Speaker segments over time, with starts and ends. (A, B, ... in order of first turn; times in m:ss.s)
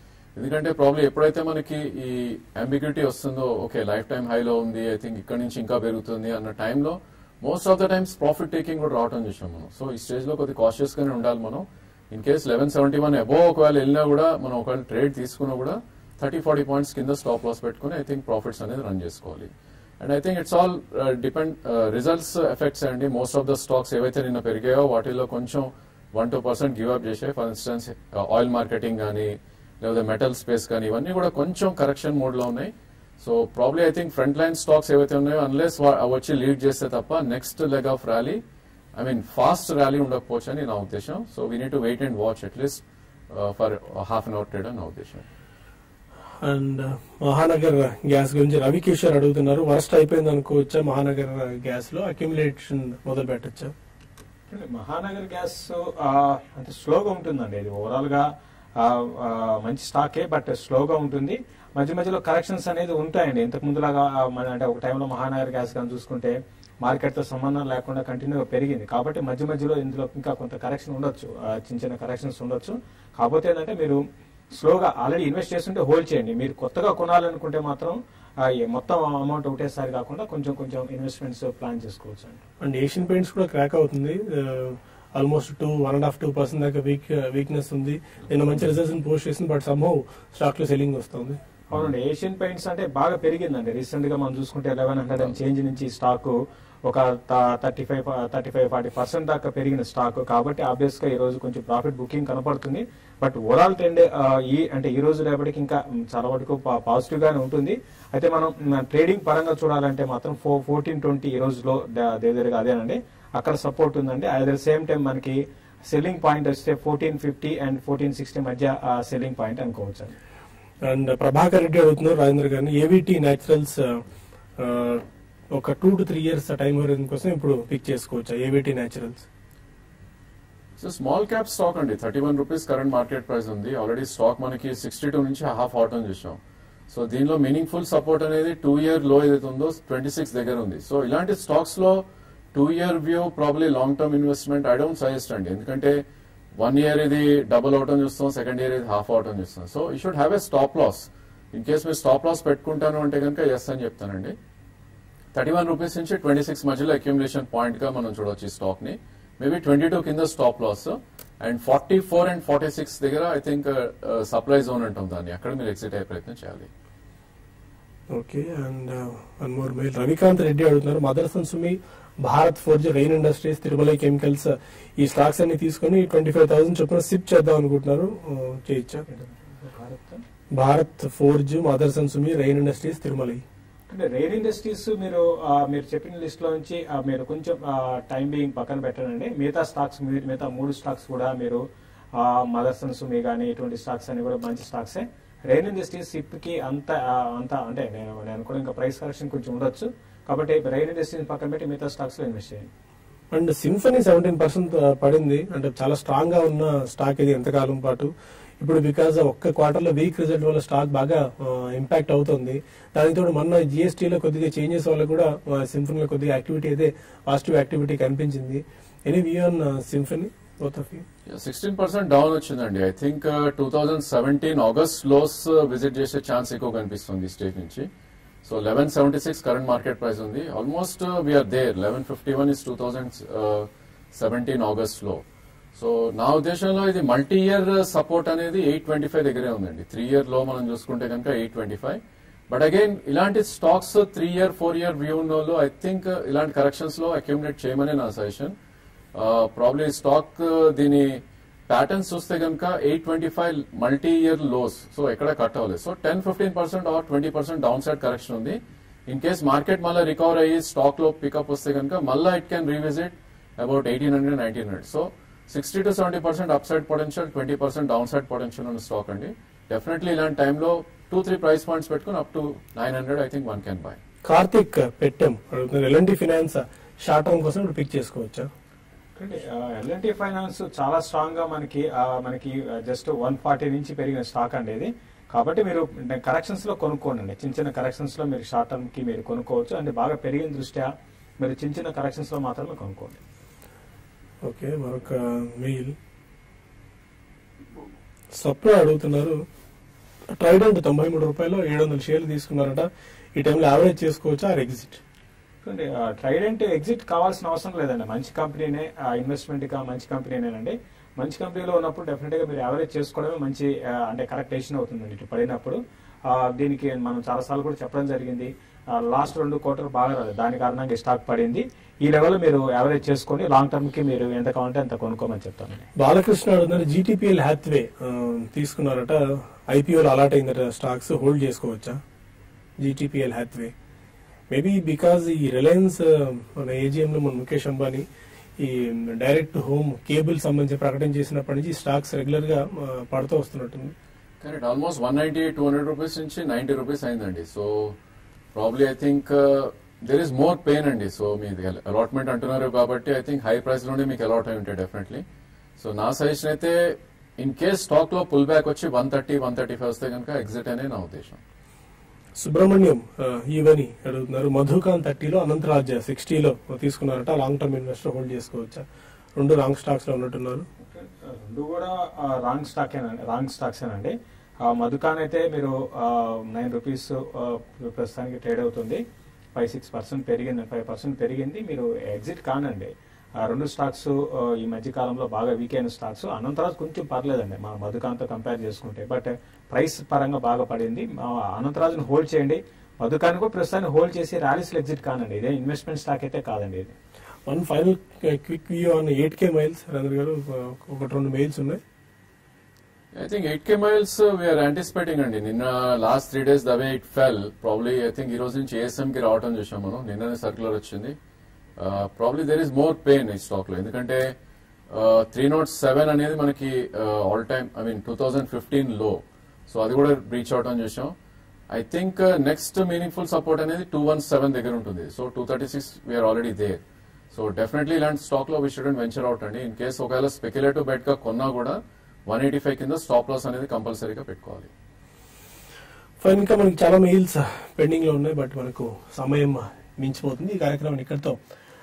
0:00.3-0:38.4 A
0:39.0-0:45.2 A
0:46.4-0:53.7 B
0:54.5-0:58.2 C
0:58.8-1:14.0 C
1:14.6-1:18.0 C
1:18.6-1:22.4 C
1:22.6-1:31.4 B
1:31.7-1:36.3 C
1:36.9-2:00.1 C
2:00.8-2:04.0 B
2:04.6-2:09.3 B
2:10.8-2:26.0 A
2:26.6-2:34.4 A
2:35.3-2:46.7 A
2:48.1-2:59.0 B
2:59.1-3:00.2 C
3:00.6-3:03.4 B
3:03.9-3:11.6 C
3:12.2-3:22.7 C
3:23.3-3:41.0 B
3:41.3-3:47.9 A
3:48.4-3:55.2 A
3:55.7-4:08.6 A
4:09.1-4:34.0 A
4:34.2-4:38.5 B
4:39.2-4:50.9 C
4:51.4-4:53.2 C
4:54.4-4:55.9 B
4:58.4-4:59.4 B
5:00.3-5:05.0 B
5:05.6-5:15.8 C
5:16.3-5:25.8 C
5:26.0-5:32.0 B
5:32.8-5:33.7 B
5:34.5-5:38.0 B
5:38.6-5:43.9 B
5:44.4-5:48.0 A
5:48.5-5:55.2 A
5:55.8-6:01.4 A
6:02.4-6:08.8 B
6:09.4-6:10.6 B
6:10.8-6:14.1 C
6:14.7-6:19.0 C
6:19.6-6:22.9 C
6:23.4-6:36.9 C
6:37.5-6:41.8 B
6:43.1-6:51.2 A
6:51.8-6:54.3 A
6:54.9-7:01.1 A
7:01.7-7:14.7 A
7:16.2-7:21.4 B